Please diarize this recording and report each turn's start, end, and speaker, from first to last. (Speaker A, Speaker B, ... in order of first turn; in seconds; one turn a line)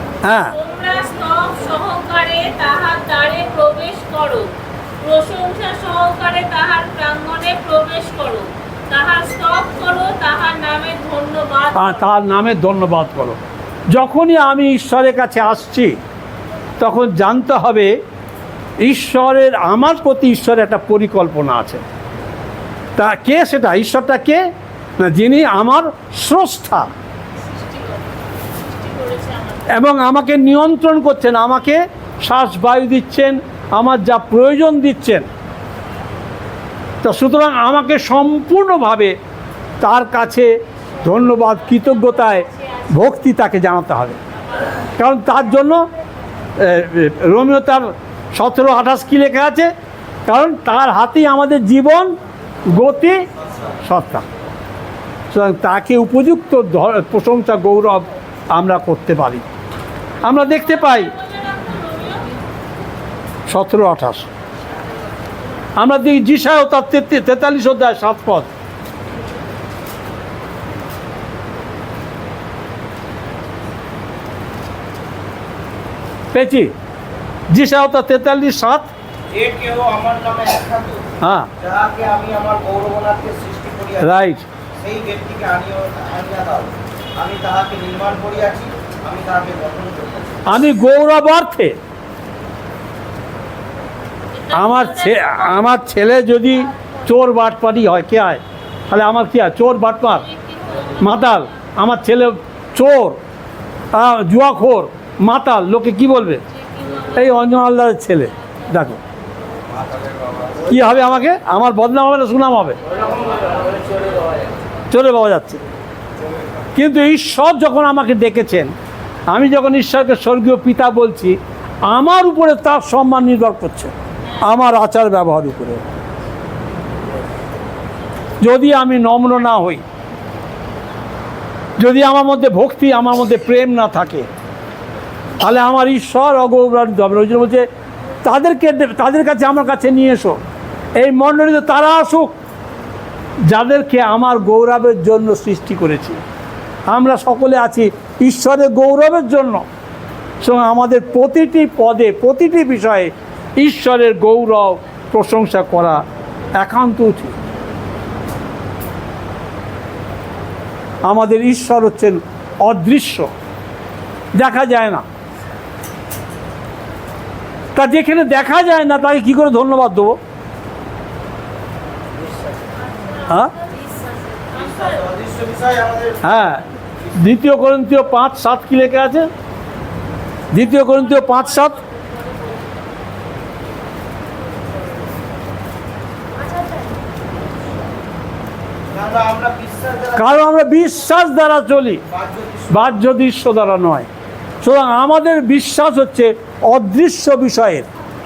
Speaker A: 0.2-0.5
Speaker B: 0.5-12.1
Speaker A: 11.8-13.4
Speaker A: 13.9-16.0
Speaker A: 16.8-18.0
Speaker A: 18.8-21.8
Speaker A: 22.9-24.4
Speaker A: 25.0-26.9
Speaker B: 27.4-29.7
Speaker A: 29.7-35.3
Speaker A: 37.0-39.2
Speaker A: 39.8-44.2
Speaker B: 41.2-42.9
Speaker A: 45.0-45.9
Speaker A: 46.6-49.7
Speaker A: 50.3-52.1
Speaker A: 52.7-53.2
Speaker A: 53.8-54.2
Speaker A: 55.3-59.5
Speaker A: 60.2-61.1
Speaker B: 60.5-62.4
Speaker A: 63.5-64.3
Speaker A: 65.8-68.5
Speaker A: 76.3-76.7
Speaker A: 77.5-78.9
Speaker C: 79.3-84.2
Speaker A: 81.2-81.5
Speaker A: 84.0-84.4
Speaker C: 84.8-90.5
Speaker A: 90.5-91.8
Speaker B: 94.3-95.7
Speaker A: 94.5-100.2
Speaker B: 100.2-101.5
Speaker A: 101.0-103.2
Speaker A: 103.9-106.4
Speaker B: 106.5-107.5
Speaker A: 107.1-109.0
Speaker A: 110.6-112.8
Speaker B: 112.9-114.5
Speaker A: 114.9-115.6
Speaker A: 116.7-118.7
Speaker A: 119.3-125.9
Speaker A: 128.4-129.8
Speaker A: 131.8-134.3
Speaker A: 135.4-137.7
Speaker A: 138.2-140.4
Speaker A: 140.9-142.3
Speaker A: 143.4-146.2
Speaker A: 146.9-149.7
Speaker A: 150.4-156.0
Speaker A: 156.6-157.3
Speaker A: 161.0-163.3
Speaker A: 164.3-165.0
Speaker A: 167.7-170.2
Speaker B: 172.7-175.0
Speaker C: 174.5-176.2
Speaker A: 176.2-179.3
Speaker A: 180.5-181.8
Speaker B: 180.7-182.8
Speaker B: 186.4-186.8
Speaker C: 188.9-190.4
Speaker A: 190.2-192.0
Speaker C: 192.1-193.0
Speaker A: 192.7-194.1
Speaker A: 194.6-197.9